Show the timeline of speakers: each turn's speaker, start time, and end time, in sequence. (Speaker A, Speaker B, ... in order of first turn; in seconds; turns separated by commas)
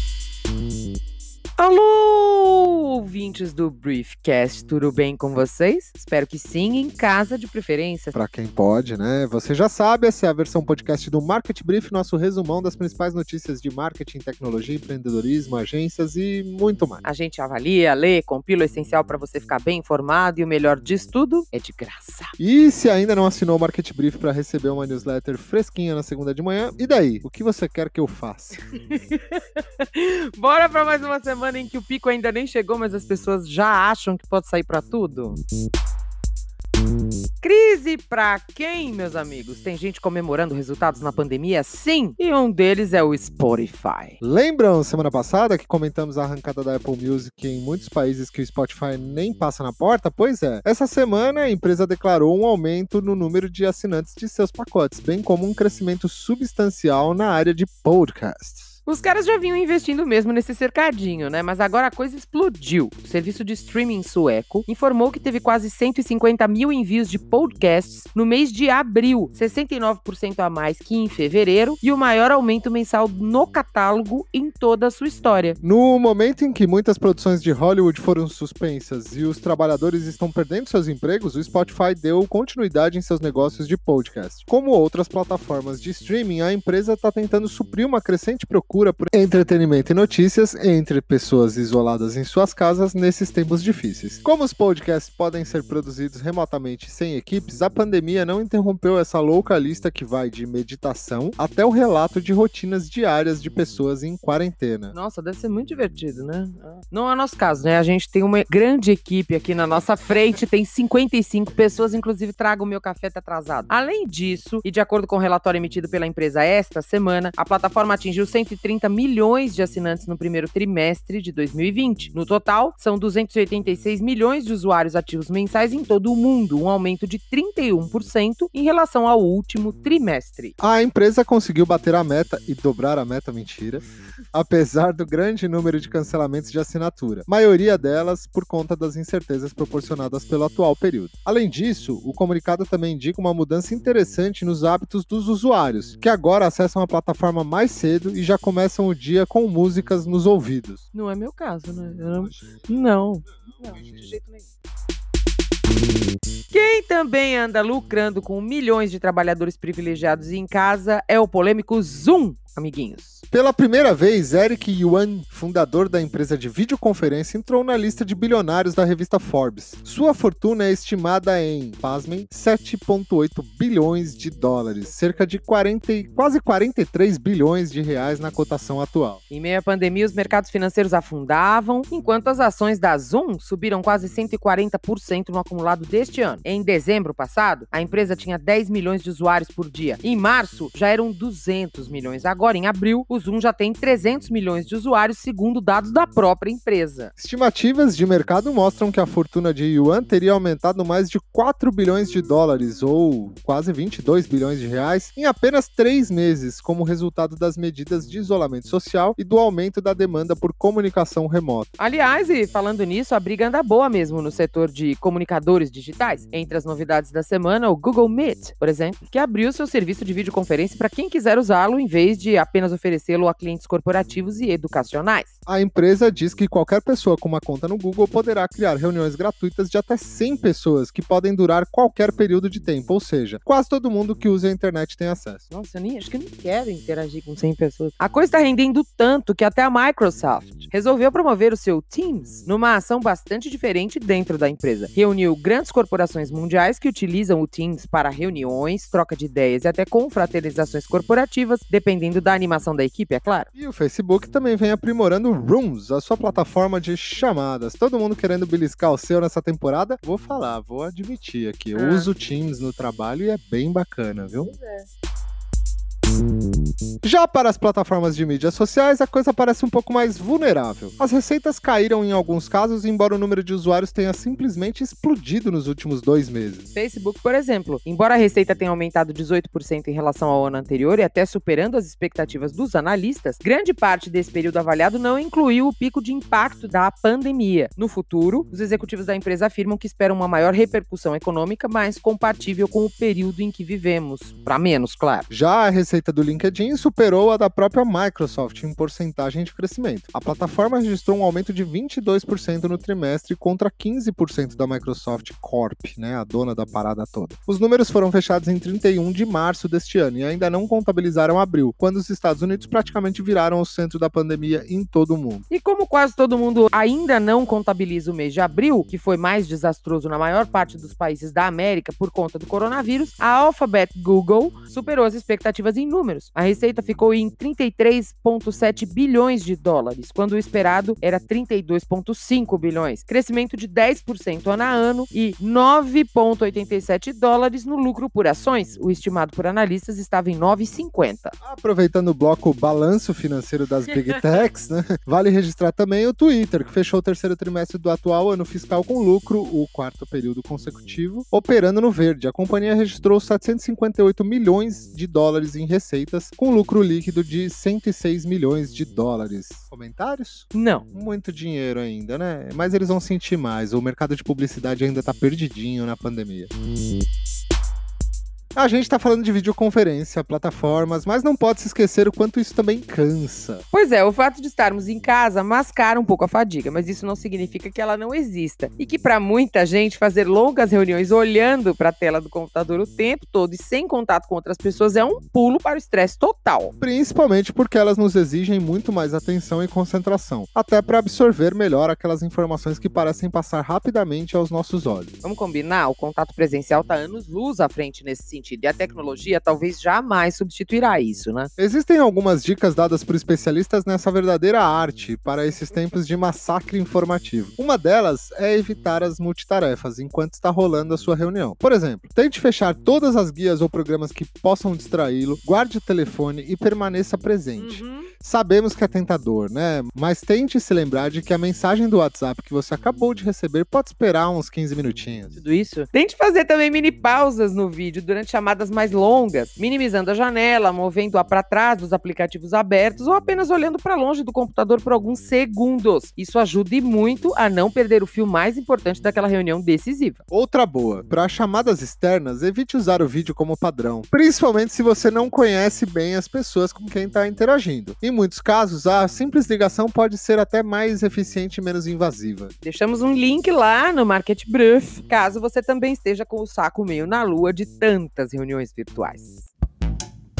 Speaker A: 1.6-8.2, Speaker B: 8.1-17.0, Speaker A: 17.0-22.3, Speaker B: 22.4-28.6, Speaker A: 28.7-35.4, Speaker A: 37.4-44.2, Speaker B: 44.2-58.8, Speaker A: 58.9-75.6, Speaker B: 75.6-105.0, Speaker A: 104.9-130.6, Speaker B: 130.6-150.8, Speaker A: 150.9-154.4, Speaker B: 152.1-154.1, Speaker A: 156.5-163.2, Speaker B: 163.3-179.2, Speaker A: 179.3-197.1, Speaker B: 197.2-211.7, Speaker A: 211.8-225.3, Speaker B: 225.5-235.4, Speaker A: 235.5-253.5, Speaker B: 253.6-264.5, Speaker A: 261.7-262.1, Speaker A: 264.5-264.9, Speaker B: 267.0-276.7, Speaker A: 276.7-295.3, Speaker B: 295.3-315.4, Speaker A: 315.5-341.4, Speaker B: 341.4-366.5, Speaker A: 360.5-360.9, Speaker B: 368.6-373.6, Speaker A: 373.7-386.7, Speaker B: 386.8-395.1, Speaker A: 395.2-401.5, Speaker B: 401.6-425.4, Speaker A: 417.6-418.1, Speaker A: 425.3-440.2, Speaker B: 440.3-452.5, Speaker A: 452.6-459.5